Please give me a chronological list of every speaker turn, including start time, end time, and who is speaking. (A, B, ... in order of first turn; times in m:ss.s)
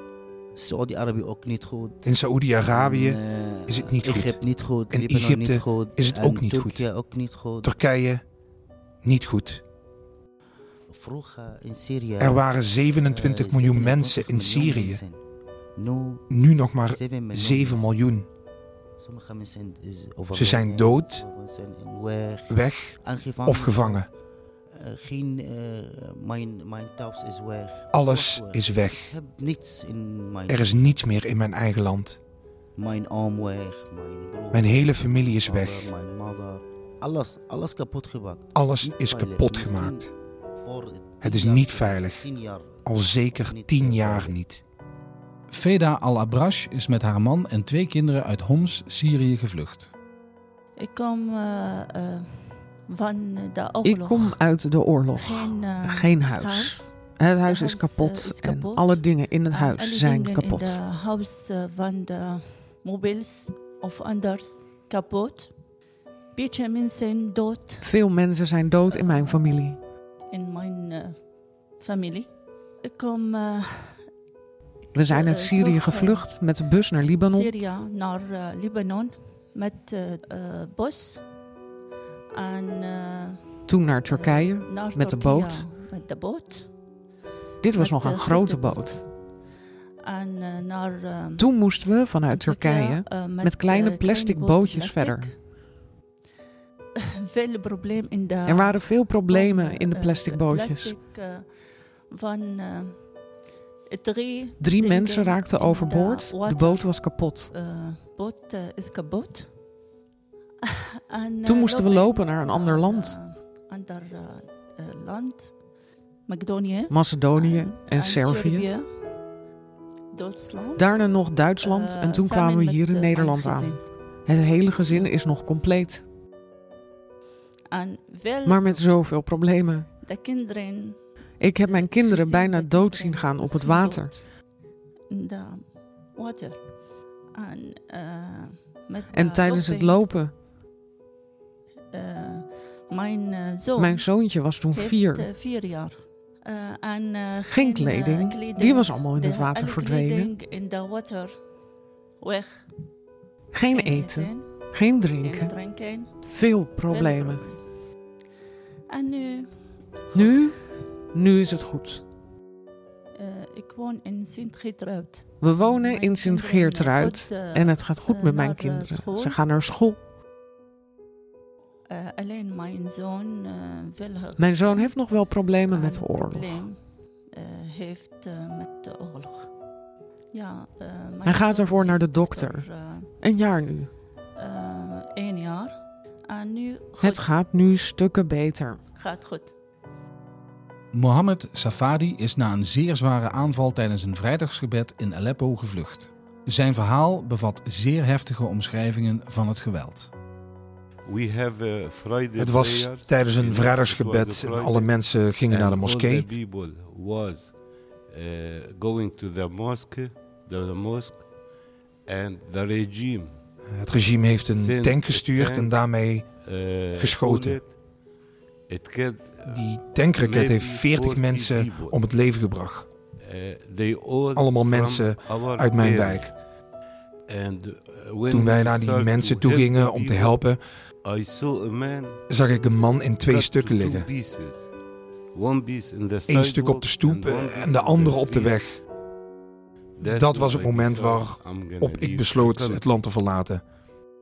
0:00.5-0:07.8 A
0:02.0-0:06.9 B
0:07.6-0:08.3 B
0:09.0-0:09.6 B
0:10.9-0:18.0 A
0:12.2-0:15.0 B
0:16.3-0:18.3 B
0:19.0-0:24.1 A
0:20.3-0:21.2 B
0:22.5-0:24.1 B
0:24.7-0:31.2 A
0:27.9-0:29.1 B
0:30.5-0:32.2 B
0:32.8-0:44.4 A
0:34.5-0:35.9 B
0:38.5-0:40.1 B
0:41.2-0:42.3 B
0:42.8-0:44.6 B
0:45.5-0:49.9 C
0:50.8-0:54.6 D
0:53.8-1:00.8 E
0:55.1-1:05.6 D
1:06.3-1:08.0 D
1:07.8-1:09.8 E
1:08.9-1:09.5 D
1:10.3-1:14.1 D
1:14.9-1:21.4 D
1:14.9-1:17.6 E
1:22.3-1:26.8 D
1:23.7-1:25.7 E
1:27.6-1:29.1 E
1:27.6-1:29.1 D
1:30.0-1:35.4 D
1:31.4-1:35.3 E
1:37.3-1:49.6 D
1:38.4-1:41.0 E
1:44.6-1:47.5 E
1:51.1-1:55.6 D
1:51.4-1:53.2 E
1:56.2-1:59.0 D
1:56.9-1:58.7 E
2:00.1-2:04.2 D
2:00.8-2:06.0 E
2:04.9-2:05.2 D
2:07.7-2:14.4 D
2:08.4-2:09.9 E
2:11.4-2:14.2 E
2:15.0-2:20.1 D
2:19.1-2:20.4 E
2:21.9-2:31.5 D
2:23.8-2:25.3 E
2:27.5-2:30.3 E
2:32.2-2:32.7 D
2:33.5-2:35.6 E
2:33.7-2:37.7 D
2:36.1-2:37.4 E
2:38.9-2:40.8 D
2:40.1-2:42.0 E
2:43.1-2:49.4 D
2:45.4-2:50.0 E
2:51.9-2:59.6 D
2:54.4-2:56.7 E
3:00.3-3:03.1 D
3:01.2-3:03.9 E
3:04.4-3:07.3 D
3:07.0-3:08.8 E
3:08.9-3:09.5 D
3:10.9-3:20.1 C
3:21.0-3:31.3 F
3:22.4-3:26.3 B
3:32.0-3:33.4 F
3:33.6-3:36.3 B
3:34.4-3:37.8 F
3:37.0-3:37.7 B
3:38.7-3:42.0 F
3:39.4-3:42.9 B
3:43.1-3:46.4 F
3:44.3-3:46.4 B
3:47.3-3:52.2 F
3:48.3-3:50.9 B
3:52.3-3:54.1 B
3:53.2-3:54.7 F
3:55.3-3:58.8 F
3:56.3-3:58.8 B
3:59.9-4:03.0 F
4:00.0-4:03.7 B